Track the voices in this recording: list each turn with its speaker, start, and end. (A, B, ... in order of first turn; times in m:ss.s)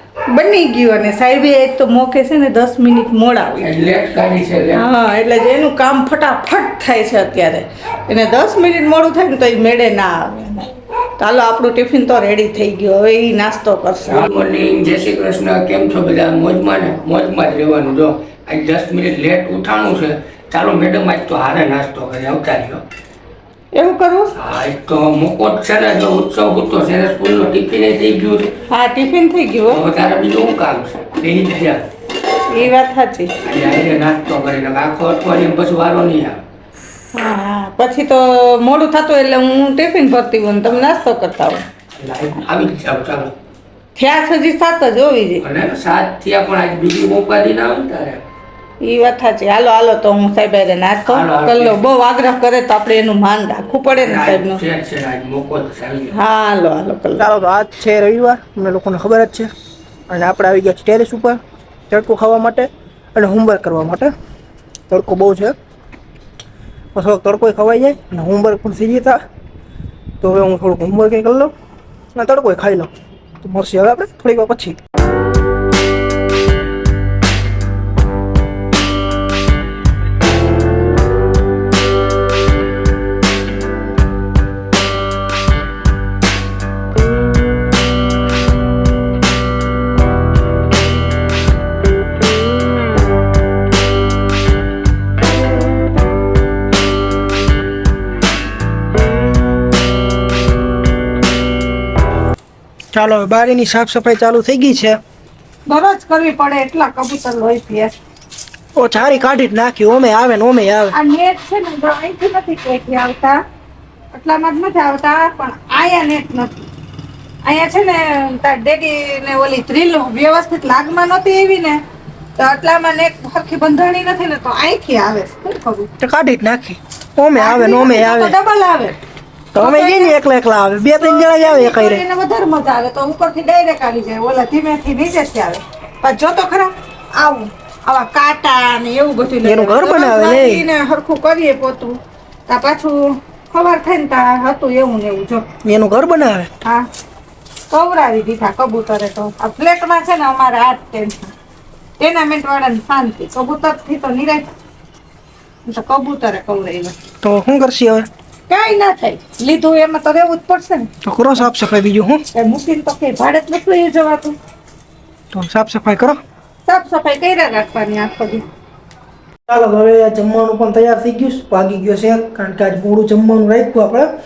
0:00.3-0:03.7 A
0:03.6-0:04.9 B
0:04.8-0:14.3 A
0:14.1-0:22.8 B
0:23.7-0:24.3 A
0:24.4-0:28.5 B
0:28.7-0:29.8 A
0:29.7-0:31.8 B
0:32.5-0:33.4 A
0:33.4-0:36.4 B
0:37.1-0:41.6 A
0:42.0-0:43.3 B
0:44.0-0:45.4 A
0:45.4-0:48.2 B
0:48.8-0:54.6 A
0:51.1-0:51.8 B
0:54.0-0:56.2 B
0:56.1-0:57.3 A
0:57.2-0:59.5 C
1:00.1-1:04.1 C
1:04.9-1:05.6 C
1:07.0-1:09.2 C
1:10.2-1:11.5 C
1:12.2-1:12.9 C
1:13.4-1:14.8 C
1:42.9-1:45.0 C
1:45.7-1:48.0 A
1:48.8-1:51.0 C
1:50.9-1:53.4 A
1:54.1-1:56.7 A
1:57.4-2:01.8 A
2:02.4-2:05.9 A
2:06.0-2:08.4 C
2:07.4-2:09.0 A
2:09.5-2:12.0 C
2:09.6-2:10.2 A
2:11.0-2:25.5 A
2:19.4-2:20.6 C
2:25.6-2:26.5 C
2:27.7-2:31.3 A
2:32.0-2:34.5 A
2:35.7-2:37.0 A
2:37.2-2:38.1 C
2:38.5-2:40.9 A
2:41.0-2:42.2 C
2:42.3-2:44.4 A
2:45.3-2:46.2 C
2:46.7-2:48.4 A
2:49.5-2:54.1 C